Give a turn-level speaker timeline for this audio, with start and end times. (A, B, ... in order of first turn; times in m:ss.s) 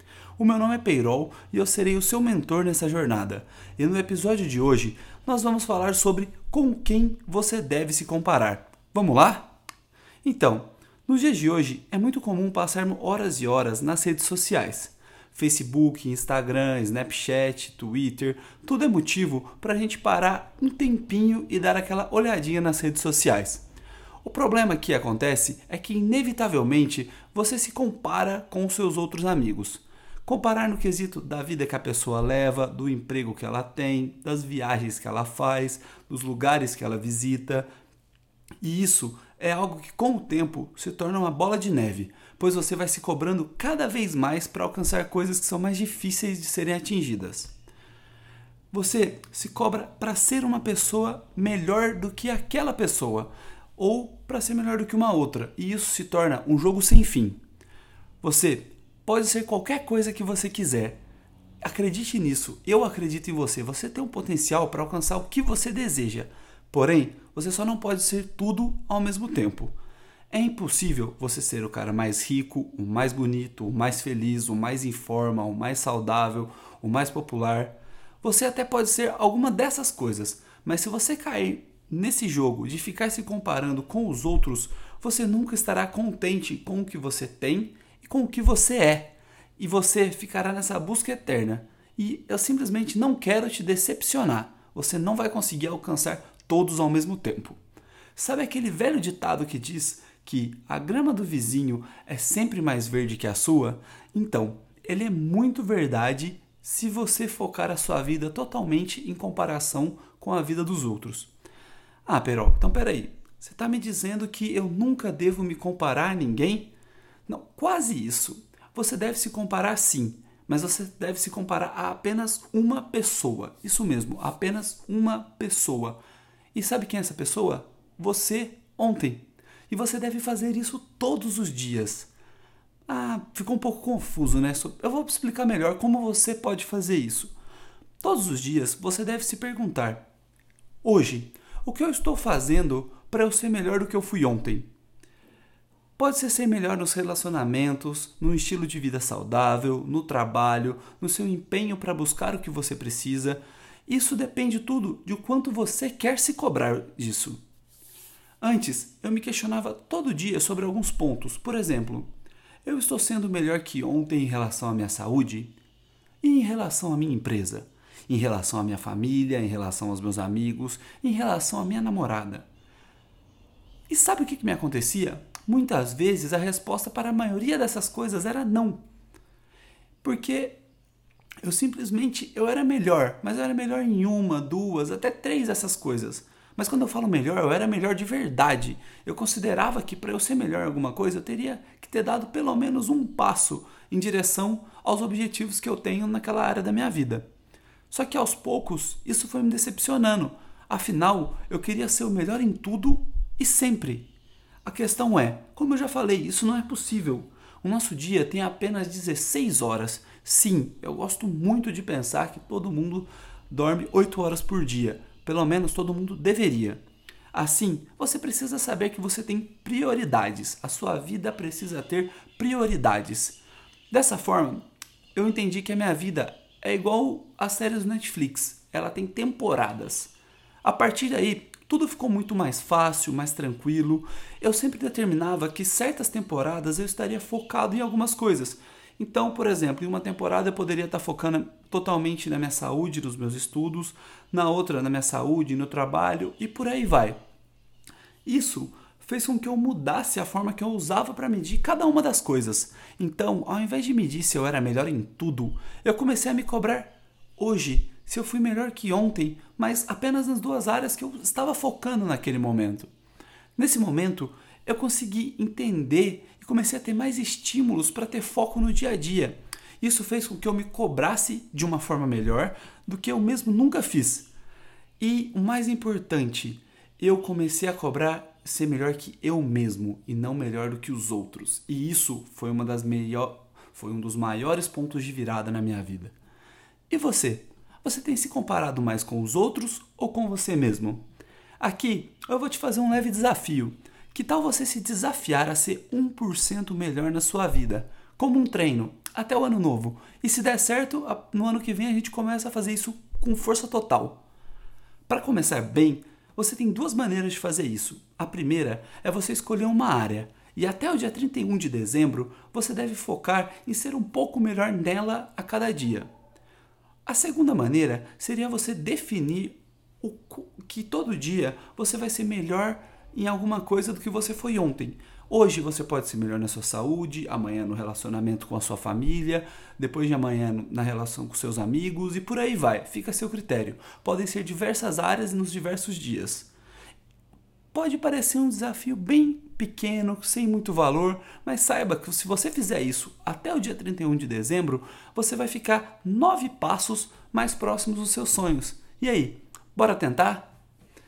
0:00.4-0:09.5 A
0:10.2-0:23.6 A
0:24.2-0:37.7 A
0:38.6-0:47.5 A
0:48.7-0:57.4 A
0:58.2-1:01.0 A
1:01.6-1:09.7 A
1:10.3-1:37.6 A
1:38.1-1:51.3 A
1:52.0-1:56.7 A
1:57.3-2:06.0 A
2:06.5-2:12.1 A
2:12.9-2:17.3 A
2:18.0-2:20.0 A
2:20.8-2:24.7 A
2:26.0-2:37.4 A
2:38.4-2:42.1 A
2:42.6-2:45.5 A
2:46.2-2:52.5 A
2:53.9-2:58.8 A
3:00.0-3:00.6 A
3:01.4-3:17.2 A
3:17.9-3:24.1 A
3:24.6-3:36.8 A
3:37.3-3:44.6 A
3:45.1-4:07.2 A
4:08.2-4:22.9 A
4:23.6-4:34.3 A
4:35.0-4:46.1 A
4:46.9-4:51.0 A
4:51.6-5:04.2 A
5:05.1-5:16.1 A
5:17.0-5:36.5 A
5:37.7-5:50.5 A